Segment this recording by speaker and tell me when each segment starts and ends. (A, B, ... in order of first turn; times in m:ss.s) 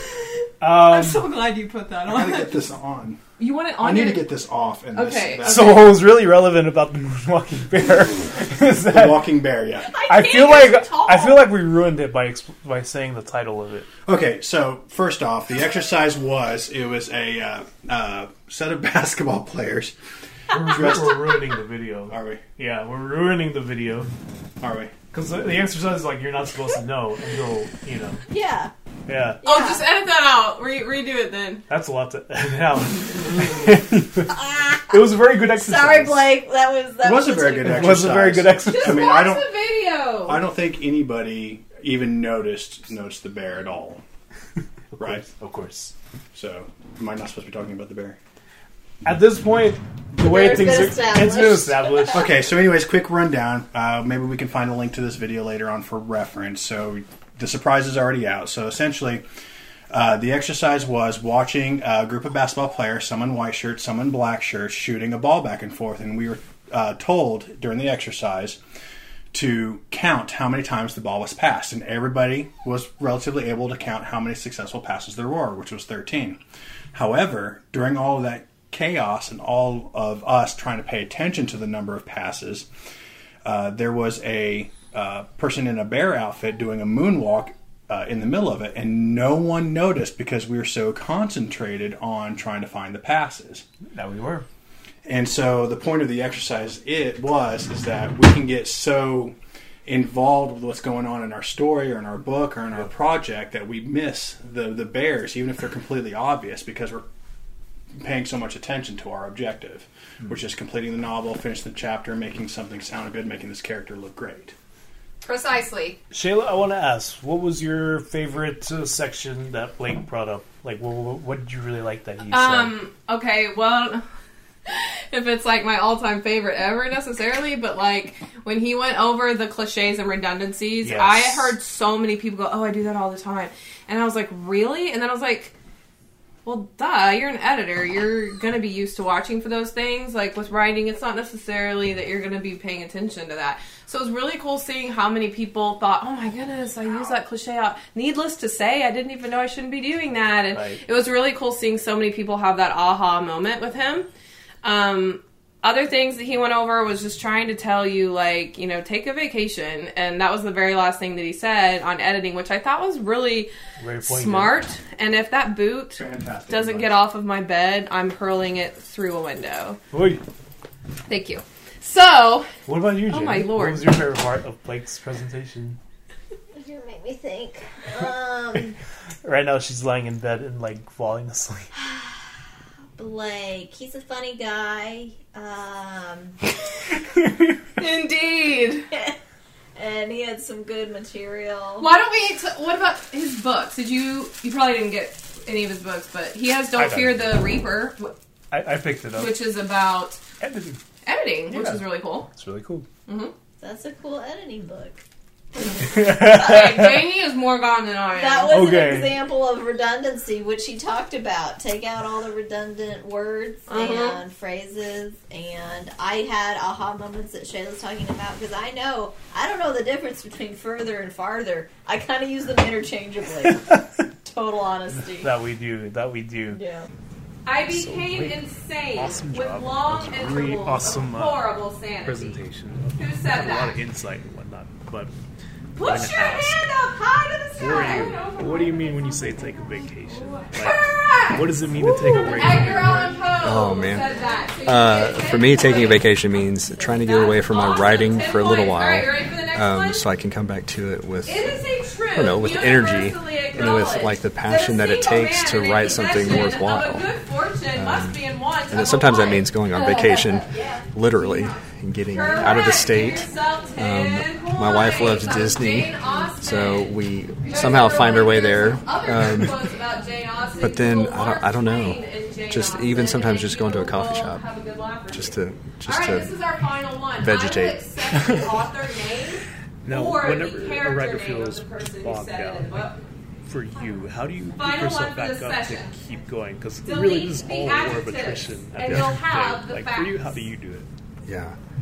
0:00.6-0:01.3 A
0:00.8-0:02.6 B
0:02.1-0:03.2 C
0:03.4-0:04.4 B
0:03.8-0:06.0 C
0:04.9-0:06.0 B
0:05.4-0:09.3 A
0:08.8-0:10.0 C
0:09.9-0:11.4 B
0:10.0-0:13.9 A
0:14.1-0:19.9 C
0:20.5-0:24.1 A
0:20.6-0:21.6 C
0:22.1-0:22.4 C
0:24.6-0:24.9 C
0:25.1-0:28.2 A
0:28.3-0:28.7 D
0:29.1-0:29.4 A
0:29.4-0:29.9 D
0:29.4-0:31.6 B
0:31.7-0:34.3 A
0:34.3-0:38.0 D
0:34.9-0:36.3 A
0:37.0-0:39.5 C
0:37.6-0:39.1 A
0:38.7-0:40.4 B
0:40.2-0:44.0 C
0:44.9-0:45.9 A
0:45.0-0:45.2 C
0:46.3-0:48.2 C
0:49.0-0:52.3 A
0:50.2-0:52.2 D
0:52.1-0:59.3 C
0:59.9-1:08.6 C
1:09.3-1:16.4 C
1:16.9-1:22.7 C
1:23.4-1:33.6 C
1:33.9-1:34.5 A
1:35.1-1:39.4 C
1:39.9-1:47.0 C
1:48.0-1:54.5 C
1:55.2-1:56.0 B
1:56.1-2:02.8 A
2:02.3-2:04.0 B
2:04.7-2:15.5 B
2:10.8-2:11.6 A
2:16.4-2:34.1 B
2:30.5-2:30.8 A
2:34.6-2:43.5 B
2:43.8-2:44.6 A
2:44.0-2:49.8 B
2:45.9-2:47.0 C
2:49.9-2:50.2 A
2:51.1-2:52.5 B
2:52.7-2:55.8 A
2:53.1-2:53.9 B
2:56.6-2:58.8 D
2:59.2-3:01.7 A
3:01.8-3:02.2 D
3:03.0-3:06.4 D
3:07.8-3:08.9 B
3:09.8-3:11.9 D
3:11.8-3:18.1 B
3:16.8-3:17.4 A
3:18.5-3:19.4 A
3:19.2-3:20.2 B
3:20.4-3:20.8 A
3:21.0-3:22.3 B
3:21.5-3:22.9 A
3:23.1-3:23.3 B
3:23.6-3:25.0 D
3:25.8-3:27.0 A
3:26.2-3:28.5 B
3:28.1-3:45.4 D
3:28.5-3:29.2 A
3:33.7-3:34.2 B
3:43.5-3:43.8 A
3:45.2-3:46.6 A
3:46.5-3:46.9 D
3:47.5-3:52.4 B
3:47.7-3:48.4 A
3:48.9-3:51.4 A
3:52.0-3:55.1 A
3:53.0-3:53.8 B
3:55.8-3:59.3 B
3:55.8-3:56.7 A
3:57.6-4:03.2 A
4:00.6-4:01.6 B
4:02.2-4:06.1 B
4:03.4-4:04.1 E
4:04.6-4:11.5 E
4:07.0-4:10.1 B
4:11.2-4:20.5 B
4:12.1-4:17.1 E
4:17.7-4:29.6 E
4:20.4-4:20.9 D
4:21.1-4:43.0 B
4:30.6-4:34.5 E
4:35.1-4:36.4 E
4:37.2-4:37.8 E
4:38.2-4:38.4 A
4:39.8-4:42.9 A
4:43.5-4:50.9 A
4:44.6-4:45.9 B
4:46.8-4:50.4 B
4:51.2-4:51.6 E